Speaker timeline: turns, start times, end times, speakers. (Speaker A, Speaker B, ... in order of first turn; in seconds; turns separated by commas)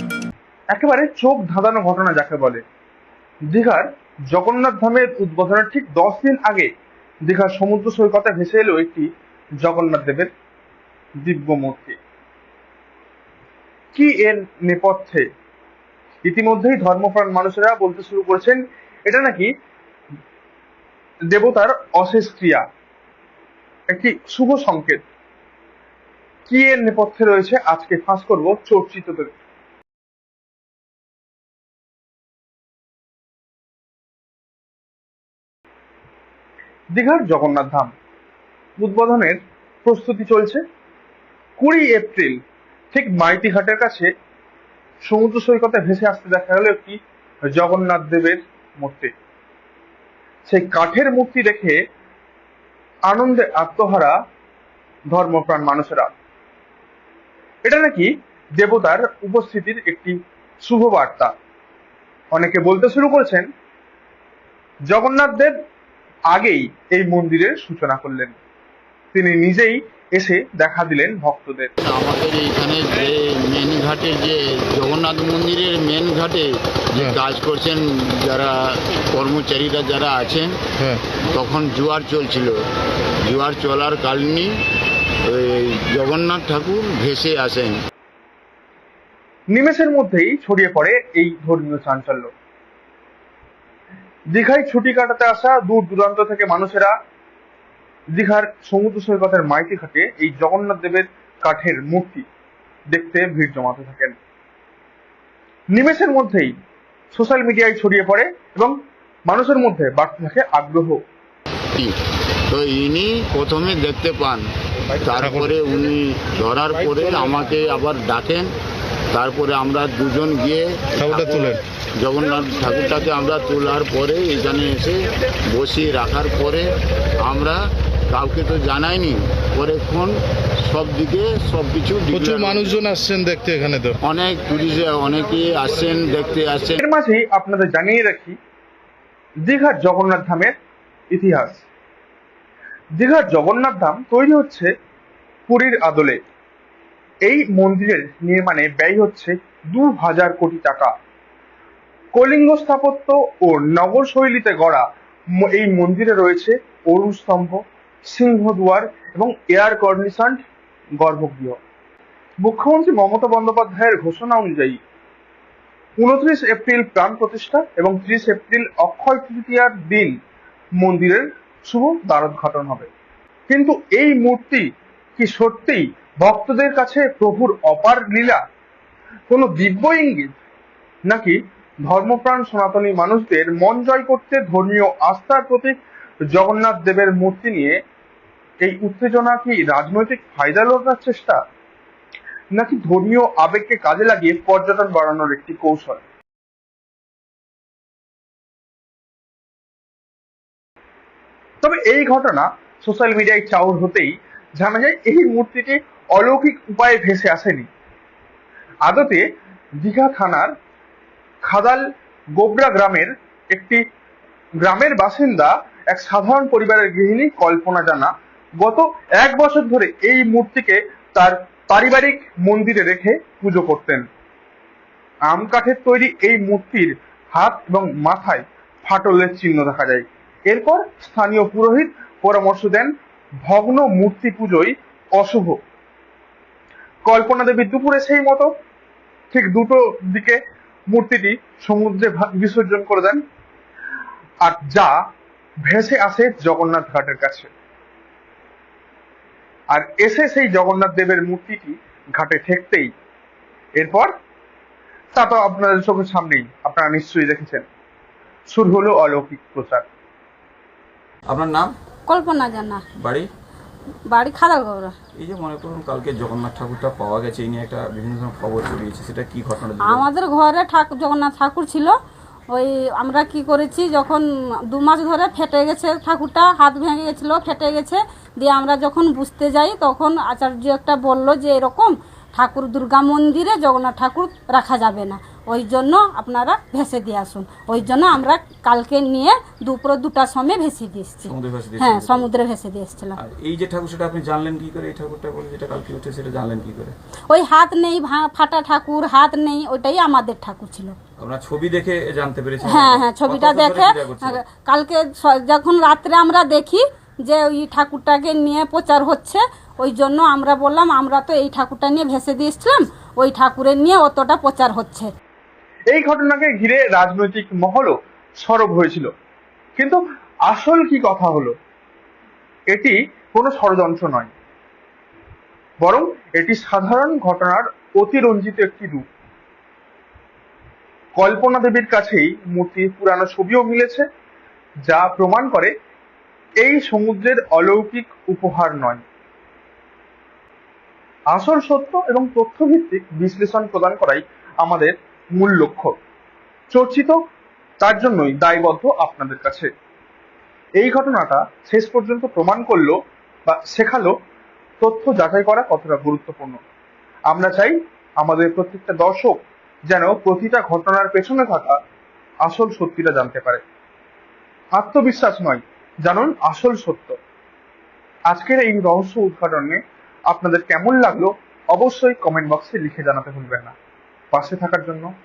Speaker A: 0.7-2.6, Speaker A: 3.5-6.7, Speaker A: 7.2-9.1, Speaker A: 9.6-10.3, Speaker A: 11.2-12.0, Speaker A: 13.9-15.2, Speaker A: 16.2-19.5, Speaker A: 21.3-22.6, Speaker A: 23.9-25.0, Speaker A: 26.5-29.3, Speaker A: 36.9-37.9, Speaker A: 38.8-40.6, Speaker A: 41.6-42.4, Speaker A: 42.9-44.1, Speaker A: 45.0-47.0, Speaker A: 47.5-49.1, Speaker A: 50.5-51.8, Speaker A: 53.1-54.1, Speaker A: 55.1-56.1, Speaker A: 57.6-61.3, Speaker A: 62.3-63.5, Speaker A: 64.9-65.5, Speaker A: 66.3-68.3, Speaker A: 69.1-71.7, Speaker B: 71.8-78.5, Speaker B: 79.1-80.6, Speaker B: 81.3-82.5, Speaker B: 83.2-84.5, Speaker B: 85.3-87.8, Speaker A: 89.5-92.3, Speaker A: 94.3-96.9, Speaker A: 98.1-102.2, Speaker A: 102.9-104.2, Speaker A: 105.7-106.5, Speaker A: 107.1-108.7, Speaker A: 109.3-111.0, Speaker B: 112.5-114.4, Speaker B: 115.0-118.5, Speaker C: 115.2-115.5, Speaker B: 119.1-126.7, Speaker C: 121.0-121.6, Speaker B: 127.2-127.6, Speaker B: 128.1-130.1, Speaker B: 130.6-132.8, Speaker C: 132.1-134.0, Speaker B: 134.0-136.8, Speaker A: 136.8-138.3, Speaker A: 139.4-140.5, Speaker A: 141.1-141.7, Speaker A: 143.0-144.7, Speaker A: 145.5-146.2, Speaker A: 147.2-150.9, Speaker A: 152.1-154.8, Speaker A: 155.3-160.4, Speaker A: 161.0-161.6, Speaker A: 162.4-164.8, Speaker A: 166.0-170.1, Speaker A: 170.8-172.9, Speaker A: 173.5-174.7, Speaker A: 175.2-178.4, Speaker A: 179.3-180.3, Speaker A: 181.1-185.7, Speaker A: 186.3-187.8, Speaker A: 188.6-191.4, Speaker A: 192.5-196.0, Speaker A: 201.6-207.7, Speaker A: 208.8-209.2, Speaker A: 209.8-210.5, Speaker A: 211.4-211.8, Speaker A: 212.3-213.8, Speaker A: 214.6-224.0, Speaker A: 225.3-232.9, Speaker A: 233.4-235.6, Speaker A: 237.1-238.5, Speaker A: 239.3-243.2, Speaker A: 244.4-245.0, Speaker A: 245.7-247.5, Speaker A: 249.7-252.9, Speaker A: 253.8-254.1, Speaker A: 255.1-257.6, Speaker A: 258.5-259.8, Speaker D: 261.3-261.7, Speaker E: 262.1-262.8, Speaker D: 263.0-263.3, Speaker E: 264.1-264.9, Speaker D: 265.1-270.1, Speaker E: 269.9-272.0, Speaker E: 272.5-293.1, Speaker D: 291.2-292.3, Speaker D: 293.2-296.9, Speaker E: 297.3-300.9, Speaker D: 301.2-304.4, Speaker E: 302.6-315.1, Speaker A: 315.9-319.1, Speaker A: 319.8-321.5, Speaker A: 322.7-324.3, Speaker A: 325.8-329.0, Speaker A: 331.1-334.0, Speaker A: 334.9-335.7, Speaker A: 336.6-339.0, Speaker A: 341.3-345.9, Speaker A: 346.7-347.2, Speaker A: 347.8-349.7, Speaker A: 350.8-354.1, Speaker A: 354.8-356.6, Speaker A: 357.3-361.8, Speaker A: 362.4-363.6, Speaker A: 364.8-367.2, Speaker A: 368.3-373.7, Speaker A: 374.3-375.1